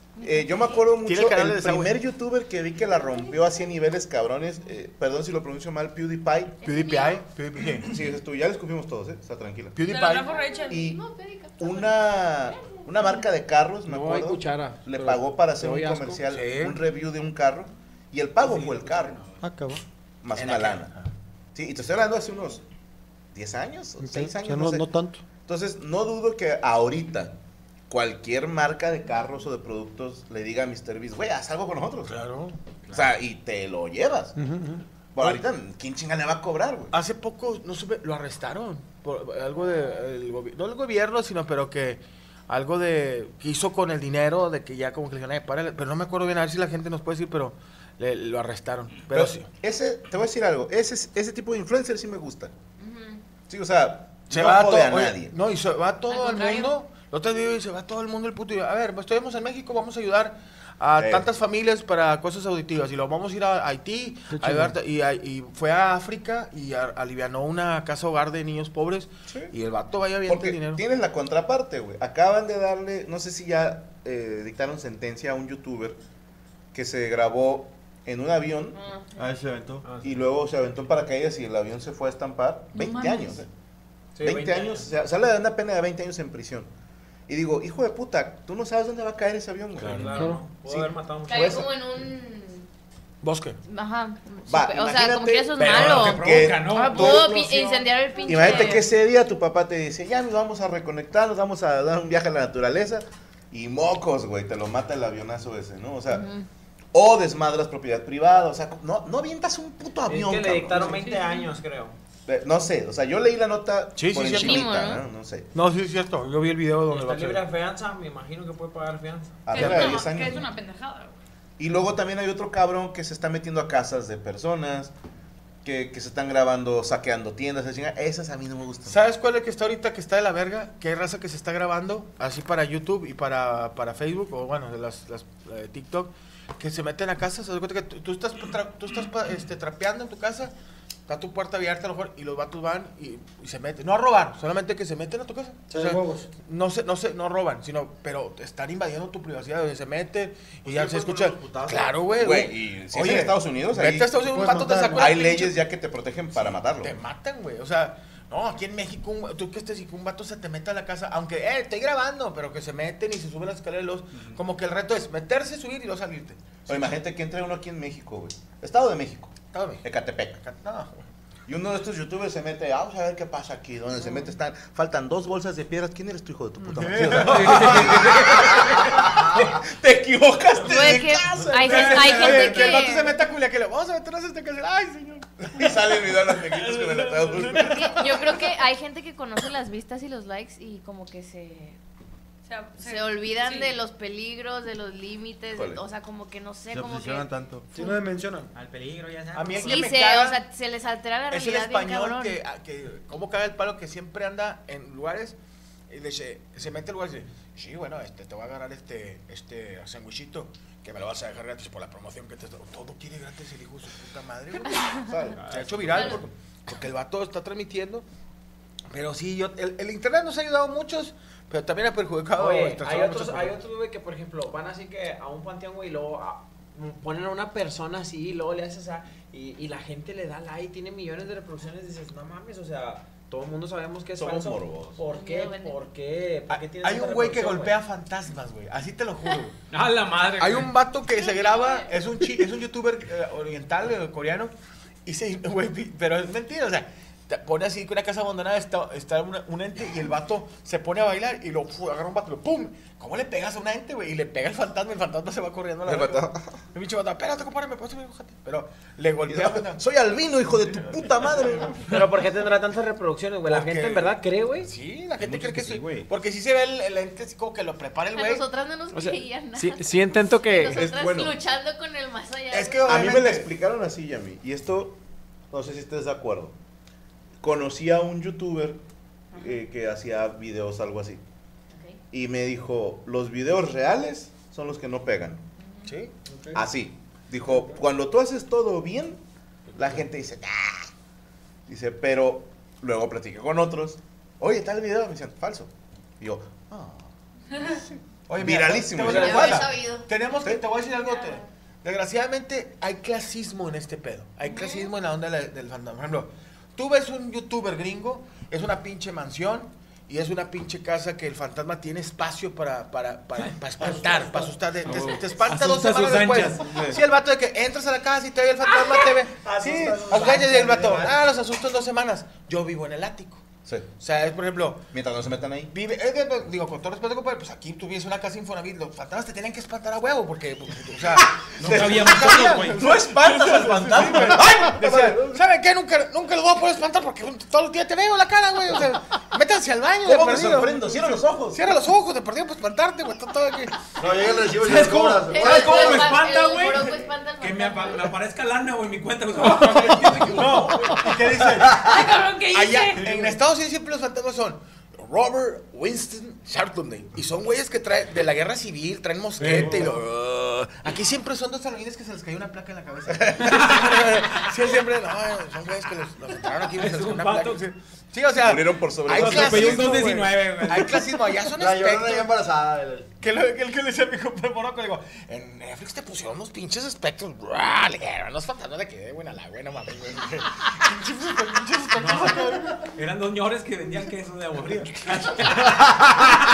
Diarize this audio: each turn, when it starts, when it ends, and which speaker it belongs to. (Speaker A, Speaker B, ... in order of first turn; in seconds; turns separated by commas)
Speaker A: 0.2-0.8, Speaker B: 0.2-6.6, Speaker C: 0.9-1.9, Speaker A: 6.6-7.2, Speaker C: 6.6-8.0, Speaker B: 7.8-9.8, Speaker C: 9.7-10.4, Speaker D: 9.8-10.8, Speaker A: 10.3-12.1, Speaker B: 10.7-11.0, Speaker B: 11.6-19.2, Speaker A: 12.6-12.9, Speaker C: 13.9-16.8, Speaker E: 14.5-16.2, Speaker F: 18.4-19.4, Speaker G: 19.4-19.8, Speaker B: 20.2-20.9, Speaker F: 20.4-20.7, Speaker C: 20.4-21.0, Speaker B: 21.5-22.6, Speaker B: 23.3-27.4, Speaker G: 24.0-25.2, Speaker B: 27.9-32.1, Speaker C: 32.0-32.6, Speaker F: 32.9-33.1, Speaker B: 32.9-34.3, Speaker G: 34.4-34.8, Speaker B: 35.1-36.9, Speaker C: 36.9-49.5, Speaker B: 49.1-52.5, Speaker A: 52.8-53.2, Speaker B: 53.5-55.3, Speaker C: 54.3-70.8, Speaker A: 56.2-56.6, Speaker D: 56.2-56.5, Speaker B: 61.0-61.3, Speaker B: 70.2-76.0, Speaker B: 76.7-78.8, Speaker A: 78.7-79.2, Speaker H: 79.2-79.8, Speaker E: 79.8-80.2, Speaker B: 80.0-83.5, Speaker D: 82.7-83.4, Speaker E: 84.2-84.9, Speaker B: 84.2-86.7, Speaker B: 87.3-91.7, Speaker F: 89.8-90.3, Speaker E: 89.9-91.6, Speaker C: 89.9-90.4, Speaker A: 91.3-92.7, Speaker C: 93.2-93.6, Speaker A: 93.7-98.9, Speaker B: 94.5-97.6, Speaker C: 95.6-96.3, Speaker F: 95.7-97.4, Speaker B: 98.2-106.2, Speaker A: 106.1-106.5, Speaker B: 106.9-111.1, Speaker E: 110.0-111.9, Speaker D: 110.8-111.5, Speaker B: 112.3-115.5, Speaker C: 114.0-114.8, Speaker A: 114.3-115.0, Speaker C: 115.5-117.5, Speaker E: 116.9-119.5, Speaker B: 119.4-120.5, Speaker D: 119.5-121.1, Speaker C: 119.6-119.9, Speaker B: 121.6-124.9, Speaker B: 125.6-129.0, Speaker C: 128.8-140.5, Speaker C: 141.1-155.6, Speaker G: 145.7-146.3, Speaker H: 150.6-152.1, Speaker B: 152.1-154.1, Speaker G: 154.2-155.2, Speaker B: 154.9-157.0, Speaker C: 156.3-166.9, Speaker F: 164.1-164.4, Speaker B: 166.7-170.4, Speaker C: 169.5-169.8, Speaker C: 170.4-170.9, Speaker B: 171.5-182.7, Speaker C: 176.6-178.3, Speaker F: 177.2-179.0, Speaker A: 180.6-183.2, Speaker C: 180.8-188.4, Speaker B: 185.5-188.4, Speaker A: 187.6-191.8, Speaker D: 192.5-193.8, Speaker A: 192.8-197.3, Speaker B: 195.5-195.8, Speaker H: 196.7-197.7, Speaker G: 197.7-198.5, Speaker F: 198.5-199.9, Speaker C: 199.3-200.4, Speaker A: 199.6-202.4, Speaker C: 201.3-205.3, Speaker C: 205.9-218.0, Speaker B: 215.0-215.9, Speaker F: 215.4-215.8, Speaker A: 215.9-216.2, Speaker C: 218.9-223.6, Speaker E: 222.3-237.8, Speaker B: 234.2-235.0, Speaker A: 235.1-235.8, Speaker C: 236.5-239.6, Speaker F: 239.7-240.8, Speaker C: 240.4-244.5, Speaker A: 241.2-241.9, Speaker C: 245.0-259.8, Speaker B: 255.8-256.6, Speaker B: 259.3-261.9, Speaker E: 261.9-264.7, Speaker C: 263.5-268.4, Speaker B: 265.2-266.0, Speaker F: 265.8-266.1, Speaker A: 268.1-269.8, Speaker E: 268.9-270.8, Speaker A: 270.4-273.1, Speaker B: 270.7-271.4, Speaker C: 272.5-273.5, Speaker B: 272.9-275.0, Speaker B: 275.5-276.6, Speaker B: 277.4-278.8, Speaker B: 279.4-281.2, Speaker B: 282.1-285.4, Speaker A: 285.6-285.9, Speaker C: 285.9-286.1, Speaker B: 286.5-289.2, Speaker C: 289.7-290.0, Speaker B: 289.7-290.9, Speaker B: 291.7-299.7, Speaker C: 298.3-323.4, Speaker A: 299.1-300.1, Speaker E: 299.1-299.5, Speaker A: 301.1-301.3, Speaker A: 304.4-304.9, Speaker F: 314.8-316.9, Speaker E: 319.4-321.0, Speaker C: 324.0-324.8, Speaker B: 324.9-325.7, Speaker C: 325.7-343.8, Speaker F: 331.6-333.1, Speaker B: 331.6-335.4, Speaker B: 340.0-341.7, Speaker H: 344.0-346.1, Speaker F: 344.5-351.6, Speaker A: 345.2-348.1, Speaker C: 349.6-372.3, Speaker D: 351.7-353.1, Speaker F: 359.4-360.0, Speaker F: 363.4-364.6, Speaker F: 366.7-367.6, Speaker B: 368.4-370.1, Speaker F: 369.1-371.1, Speaker H: 371.6-373.1, Speaker C: 373.2-382.9, Speaker F: 381.9-386.3